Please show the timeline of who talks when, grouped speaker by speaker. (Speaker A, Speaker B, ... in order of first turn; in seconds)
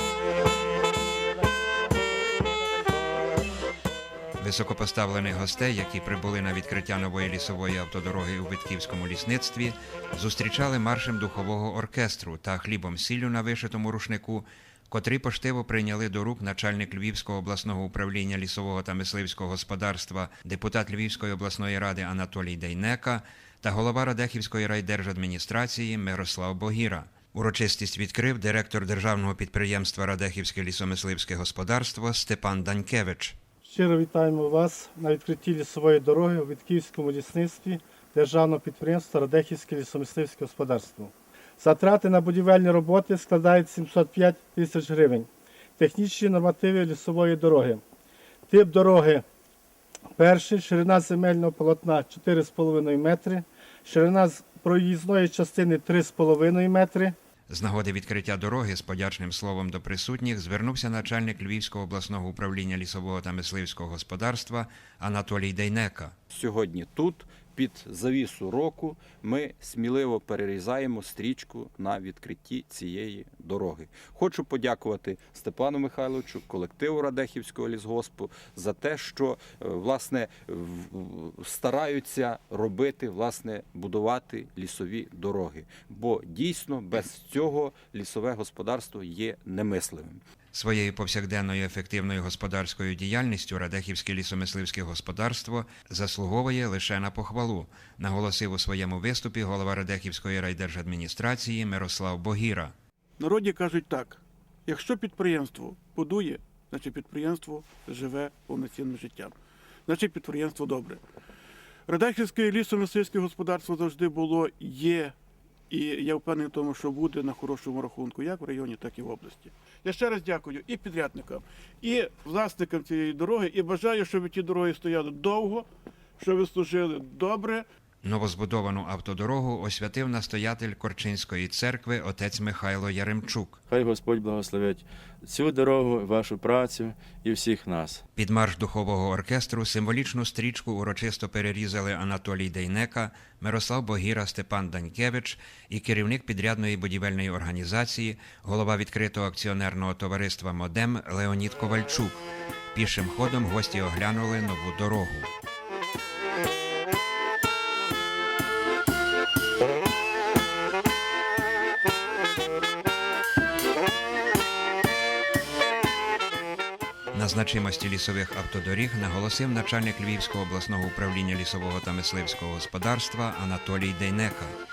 Speaker A: 4.4-33.4, 57.5-66.1, 90.5-102.7, 128.0-133.6, 138.2-155.3, 167.1-174.5
Speaker B: 33.6-47.8, 48.5-49.2, 50.1-57.1
Speaker C: 66.3-90.2
Speaker D: 103.2-109.3, 109.9-111.0, 111.9-115.1, 115.7-125.7, 126.2-127.6
Speaker E: 133.7-134.8, 135.4-138.0